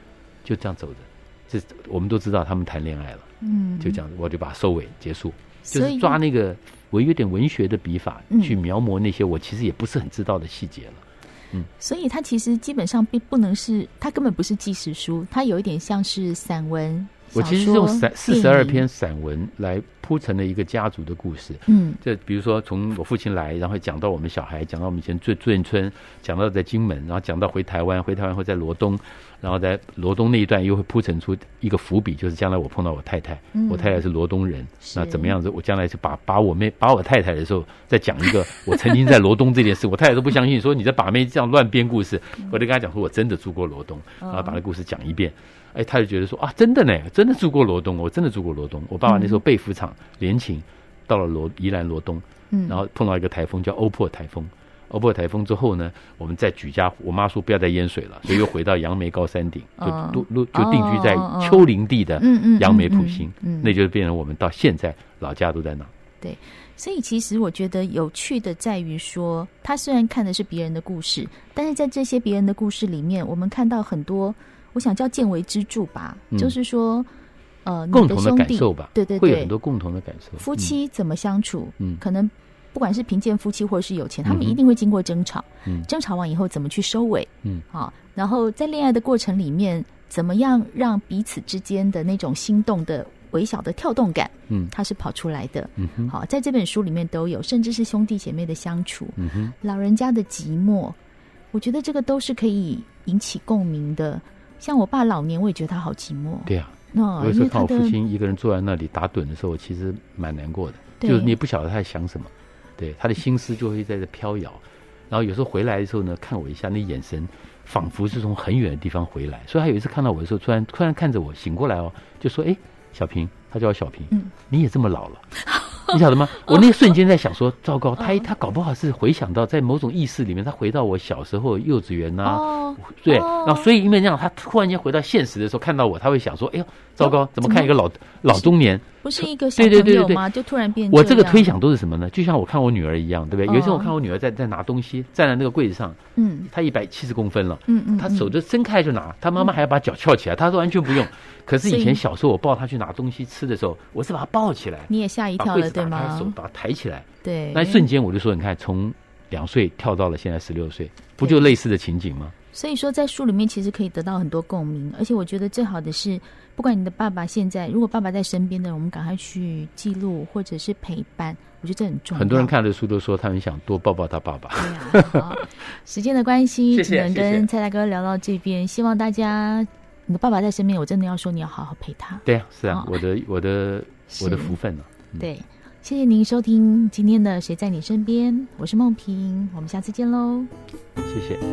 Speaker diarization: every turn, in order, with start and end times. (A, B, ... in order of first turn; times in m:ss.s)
0:00.4-0:03.3 A
0:03.4-0:04.0 B
0:03.8-0:11.7 A
0:05.7-0:06.2 B
0:08.3-0:08.6 B
0:11.8-0:18.8 B
0:17.3-1:05.9 A
0:21.7-0:22.0 B
0:33.5-0:34.0 B
0:34.8-0:35.3 B
0:44.2-0:44.6 B
0:49.0-0:49.4 B
0:52.5-0:52.8 B
0:59.8-1:03.7 B
1:06.2-1:17.1 B
1:17.6-1:19.5 B
1:17.9-1:20.7 A
1:20.4-1:41.0 B
1:24.2-1:24.6 A
1:35.8-1:36.1 A
1:39.2-1:39.5 A
1:41.5-1:48.0 B
1:46.5-2:05.3 A
1:51.0-1:51.4 B
2:05.5-2:05.9 B
2:05.9-2:20.2 A
2:12.2-2:13.7 B
2:17.0-2:17.7 B
2:18.3-2:21.5 B
2:20.9-2:42.3 A
2:23.5-2:23.9 B
2:26.2-2:26.5 B
2:27.7-2:28.3 B
2:31.6-2:32.0 B
2:34.9-2:36.3 B
2:37.2-2:37.8 B
2:42.5-2:52.5 B
2:52.1-2:55.4 A
2:54.6-3:02.9 B
2:56.7-2:57.5 A
3:02.2-3:05.2 A
3:04.1-3:04.6 B
3:05.2-3:10.5 B
3:11.0-3:11.4 A